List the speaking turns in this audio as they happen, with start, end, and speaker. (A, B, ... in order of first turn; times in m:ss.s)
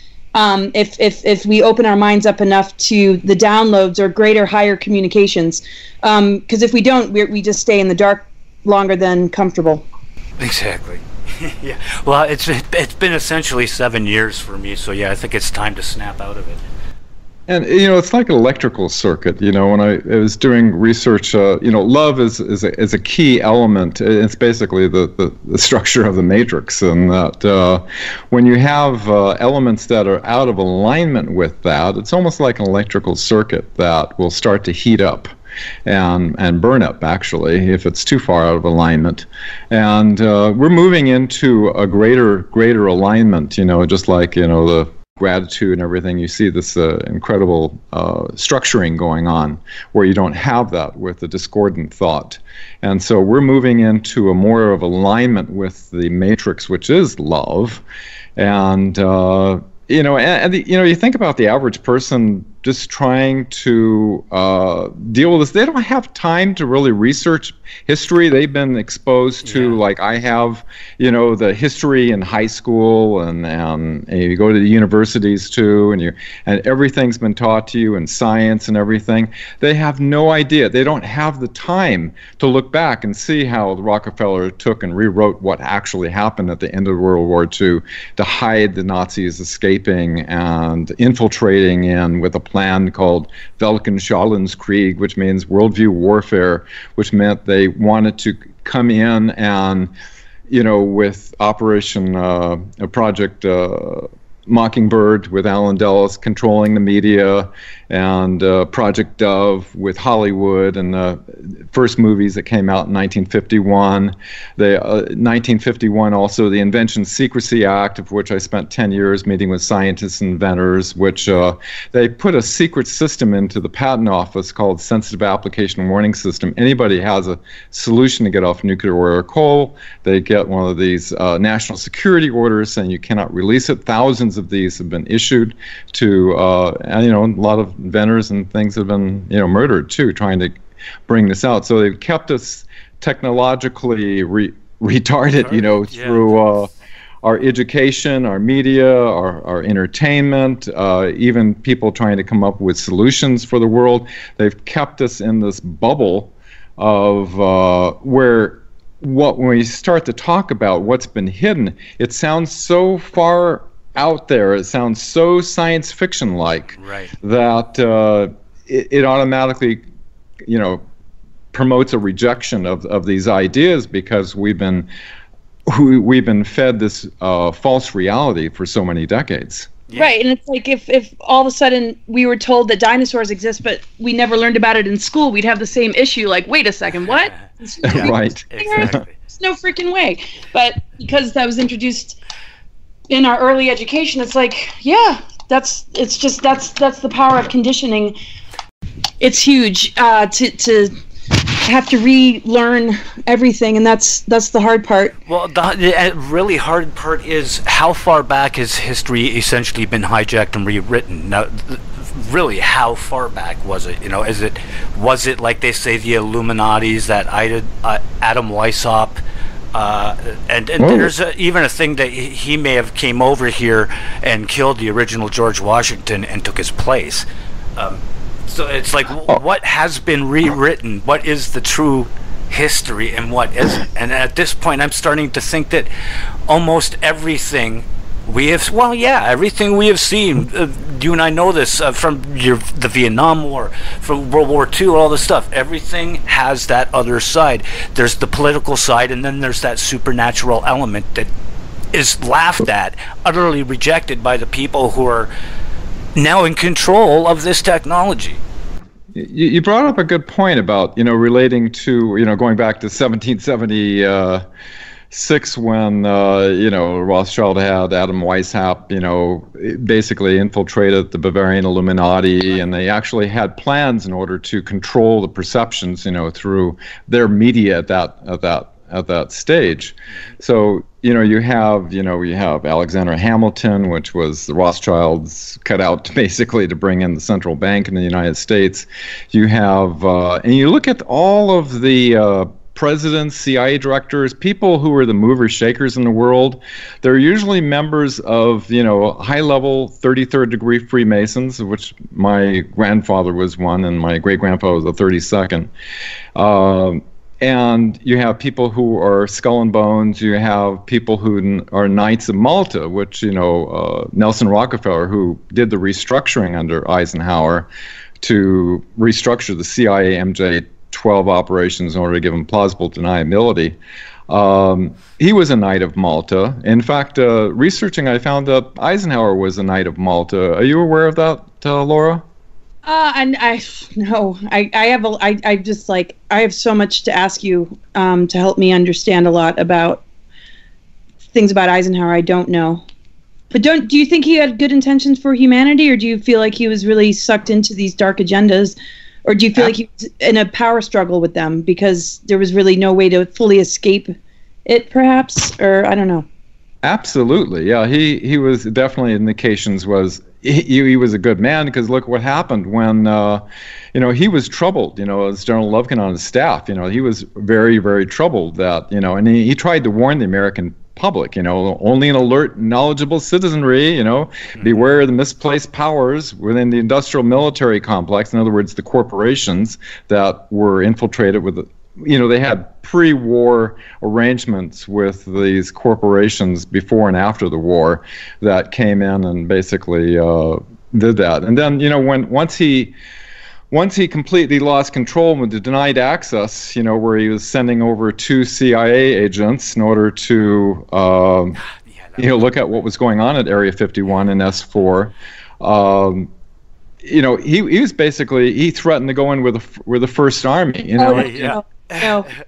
0:00.3-0:09.8 A
0:10.4-0:16.6 B
0:17.5-0:35.3 C
0:35.8-0:57.8 C
0:58.4-1:39.9 C
1:09.4-1:09.8 B
1:40.5-2:26.7 C
2:25.4-2:26.6 B
2:27.2-2:49.8 C
2:46.7-2:47.1 B
2:50.4-2:50.8 C
2:51.5-2:54.9 C
2:55.7-2:59.8 C
2:59.9-3:12.2 A
3:07.1-3:09.2 B
3:07.8-3:09.0 C
3:13.1-3:18.1 A
3:19.2-3:25.1 A
3:25.2-3:39.2 B
3:39.7-3:55.9 B
3:40.8-3:41.1 C
3:56.5-4:11.3 B
4:11.9-4:15.3 B
4:16.1-4:18.4 B
4:19.1-4:24.4 C
4:25.1-5:05.7 C
5:06.3-5:17.7 C
5:18.2-5:23.8 C
5:24.3-5:32.2 C
5:32.8-5:40.0 A
5:41.3-5:42.8 A
5:43.5-5:54.1 A
5:54.6-5:56.2 A
5:56.8-6:32.9 C
6:33.7-6:41.6 C
6:41.7-6:42.4 B
6:42.2-6:46.3 C
6:47.0-6:51.4 C
6:51.0-6:52.3 A
6:51.2-6:52.3 B